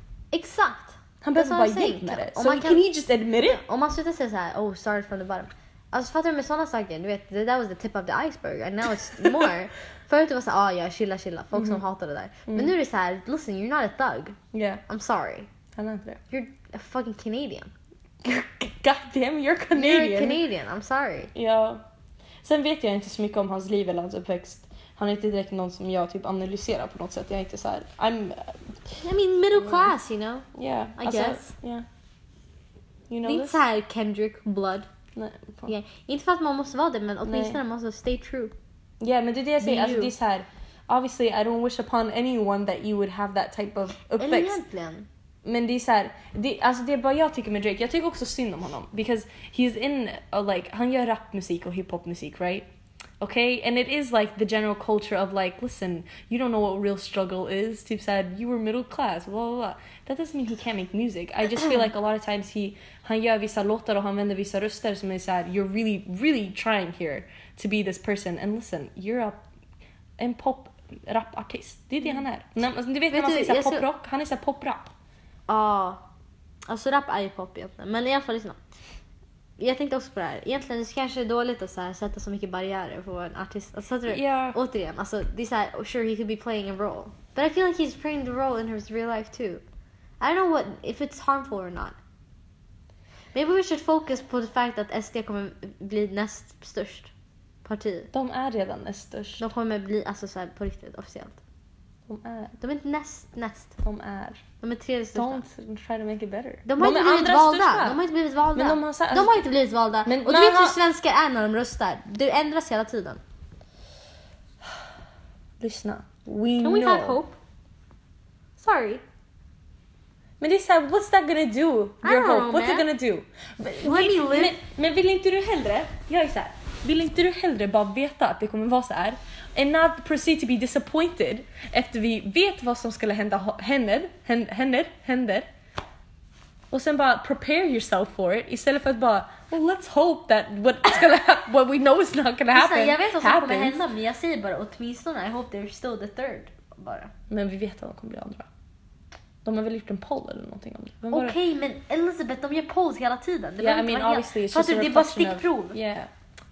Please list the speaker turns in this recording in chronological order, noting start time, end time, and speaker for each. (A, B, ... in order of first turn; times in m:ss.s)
0:00.3-0:02.8 A
0:01.2-0:03.6 B
0:03.4-0:14.4 A
0:11.5-0:11.8 B
0:14.5-0:14.8 B
0:14.9-0:15.5 A
0:15.8-0:16.2 B
0:16.3-0:17.7 A
0:18.2-0:20.4 B
0:19.7-0:21.3 A
0:21.3-0:21.8 B
0:22.4-0:28.7 B
0:29.0-0:30.5 A
0:29.6-0:29.9 B
0:30.5-0:31.9 B
0:31.0-0:31.5 A
0:33.1-0:33.6 B
0:33.2-0:34.9 A
0:35.2-0:35.7 B
0:35.7-0:38.5 A
0:37.3-0:37.6 B
0:39.0-0:44.6 B
0:39.6-0:40.1 A
0:44.2-0:45.1 A
0:45.4-0:52.7 B
0:53.2-1:09.4 B
1:10.2-1:14.9 B
1:13.1-1:13.9 A
1:15.5-1:16.0 A
1:16.7-1:18.6 A
1:19.6-1:29.6 A
1:24.1-1:24.6 B
1:30.2-1:32.0 A
1:33.3-1:37.1 A
1:37.6-1:38.1 A
1:38.1-1:39.4 B
1:39.4-1:41.4 A
1:42.1-1:42.6 B
1:42.6-1:43.8 A
1:43.8-1:44.4 B
1:44.6-1:45.4 A
1:45.2-1:48.0 B
1:46.7-1:53.2 A
1:48.6-1:49.5 B
1:50.1-1:50.8 B
1:55.6-1:57.2 B
1:56.6-1:57.4 A
1:58.6-1:59.0 A
2:00.4-2:15.5 B
2:02.0-2:02.9 A
2:03.8-2:04.6 A
2:16.7-2:23.8 B
2:22.5-2:27.1 A
2:27.3-2:28.5 B
2:29.4-2:31.4 B
2:31.1-2:35.8 A
2:33.6-2:36.1 B